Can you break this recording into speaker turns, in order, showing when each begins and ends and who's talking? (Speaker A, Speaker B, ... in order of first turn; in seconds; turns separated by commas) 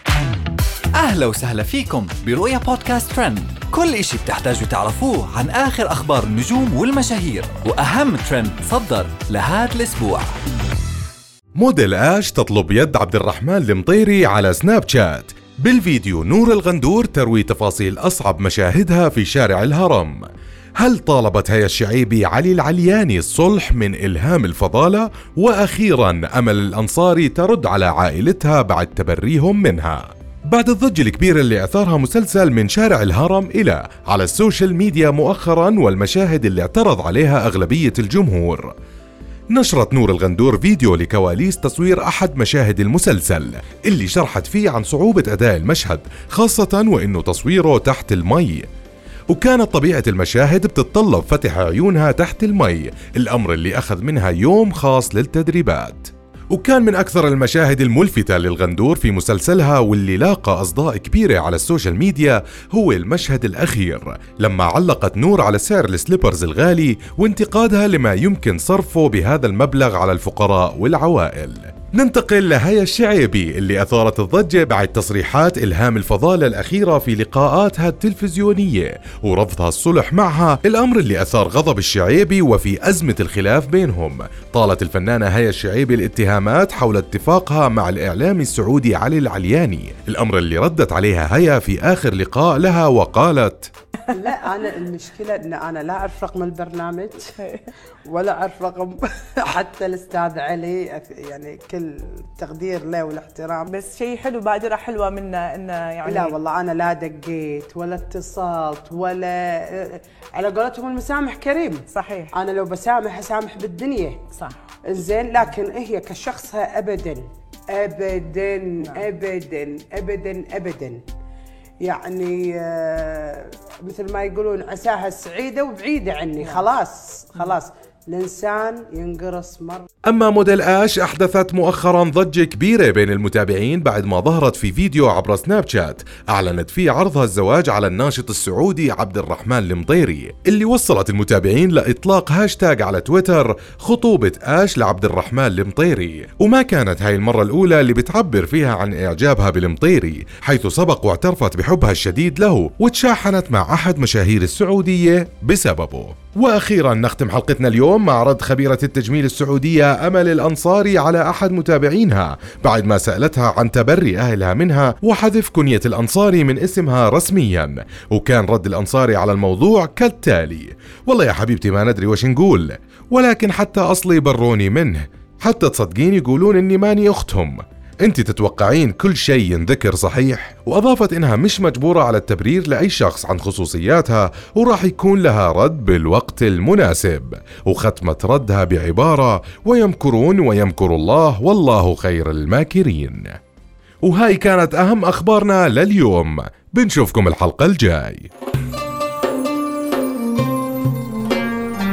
Speaker A: 0.9-10.3, Speaker B: 11.6-20.3, Speaker B: 20.8-38.7, Speaker B: 39.5-48.7, Speaker B: 49.3-93.7, Speaker C: 94.1-97.4, Speaker C: 98.0-103.7, Speaker D: 103.7-106.3, Speaker C: 106.0-114.2, Speaker D: 111.9-112.3, Speaker D: 114.3-114.6, Speaker C: 114.9-121.0, Speaker C: 121.8-129.9, Speaker B: 130.1-193.4, Speaker B: 194.0-198.3